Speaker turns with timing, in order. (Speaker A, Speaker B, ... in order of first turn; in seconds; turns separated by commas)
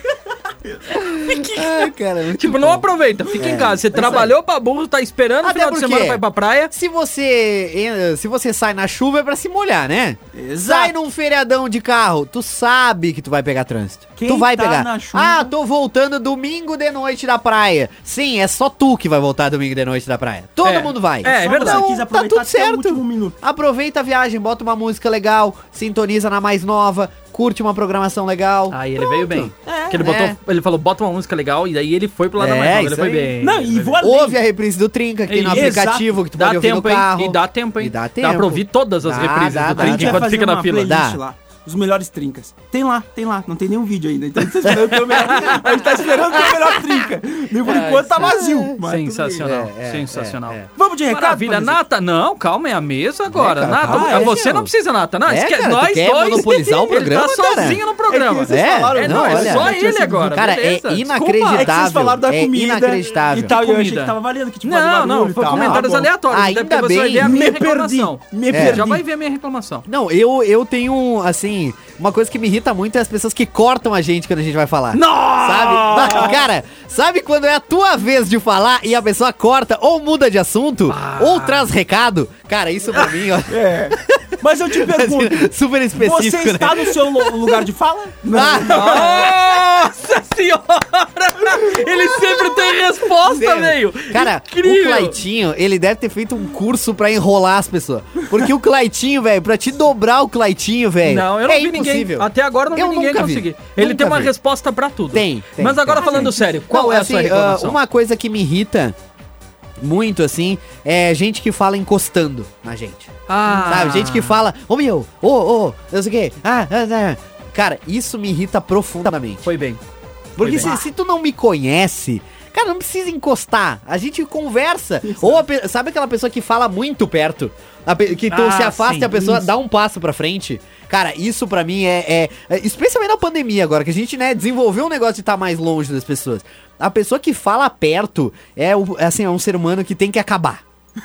Speaker A: 0.9-4.3, Speaker B: 1.0-6.7, Speaker A: 5.4-30.4, Speaker C: 10.3-11.0, Speaker C: 14.2-15.5, Speaker B: 20.6-21.8, Speaker C: 21.2-23.4, Speaker B: 28.7-34.0, Speaker C: 29.7-30.1, Speaker A: 32.4-33.4, Speaker C: 33.4-34.4, Speaker A: 34.0-40.3, Speaker B: 35.3-40.9, Speaker C: 35.5-36.1, Speaker C: 39.7-49.5, Speaker A: 40.9-41.2, Speaker B: 45.1-45.8, Speaker B: 47.6-61.7, Speaker A: 48.2-48.7, Speaker A: 49.4-50.7, Speaker C: 50.8-51.8, Speaker A: 53.3-54.7, Speaker C: 53.9-54.4, Speaker A: 55.3-57.8, Speaker C: 58.1-60.3, Speaker A: 58.5-63.5, Speaker C: 61.5-66.1, Speaker B: 63.4-69.9, Speaker A: 65.5-67.4, Speaker C: 67.2-69.0, Speaker A: 68.5-68.9, Speaker A: 69.9-84.2, Speaker B: 74.9-76.4, Speaker C: 75.9-76.4, Speaker B: 80.9-81.7, Speaker C: 83.5-89.3, Speaker A: 84.8-87.5, Speaker A: 88.3-89.2, Speaker B: 88.7-95.2, Speaker A: 93.2-104.3, Speaker B: 101.0-107.8, Speaker A: 105.1-109.0, Speaker C: 106.1-106.4, Speaker A: 109.8-119.5, Speaker B: 113.3-114.4, Speaker B: 119.4-119.8, Speaker A: 120.4-140.6, Speaker B: 120.4-120.7, Speaker C: 120.5-120.8, Speaker C: 125.0-125.4, Speaker B: 128.3-129.2, Speaker C: 129.1-129.4